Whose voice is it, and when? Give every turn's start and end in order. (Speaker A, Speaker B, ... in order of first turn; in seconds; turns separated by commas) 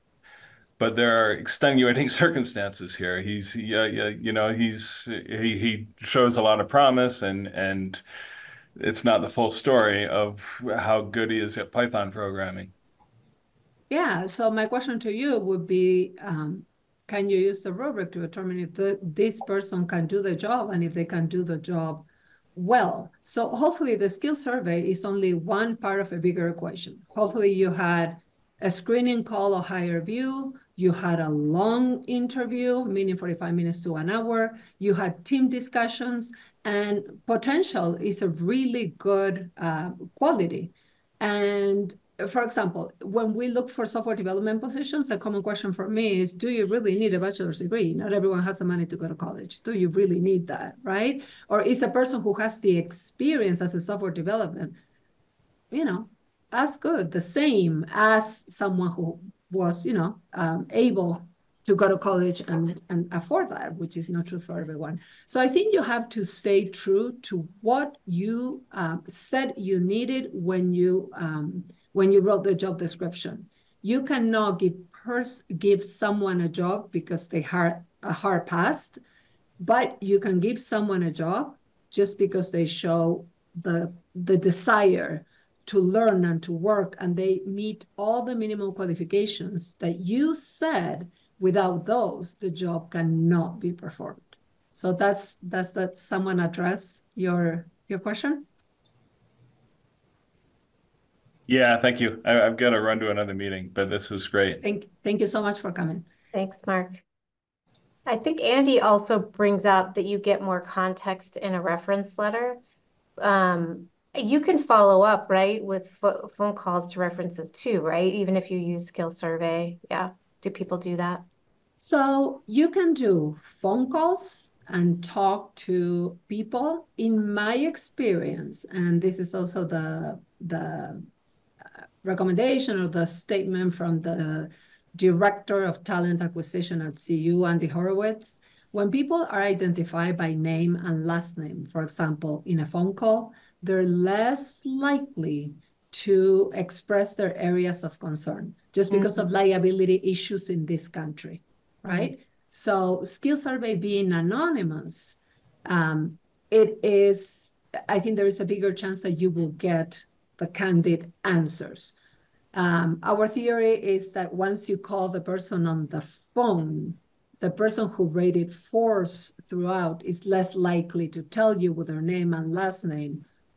Speaker A: 0.8-8.0, Speaker A: 8.8-12.7, Speaker B: 13.9-54.8, Speaker B: 55.7-79.0, Speaker B: 79.6-98.5, Speaker A: 101.5-104.6, Speaker B: 104.6-106.1, Speaker C: 106.3-107.0, Speaker C: 108.1-112.6, Speaker C: 113.2-121.2, Speaker B: 121.8-131.1, Speaker B: 132.0-161.9, Speaker C: 148.9-149.2, Speaker B: 162.5-173.3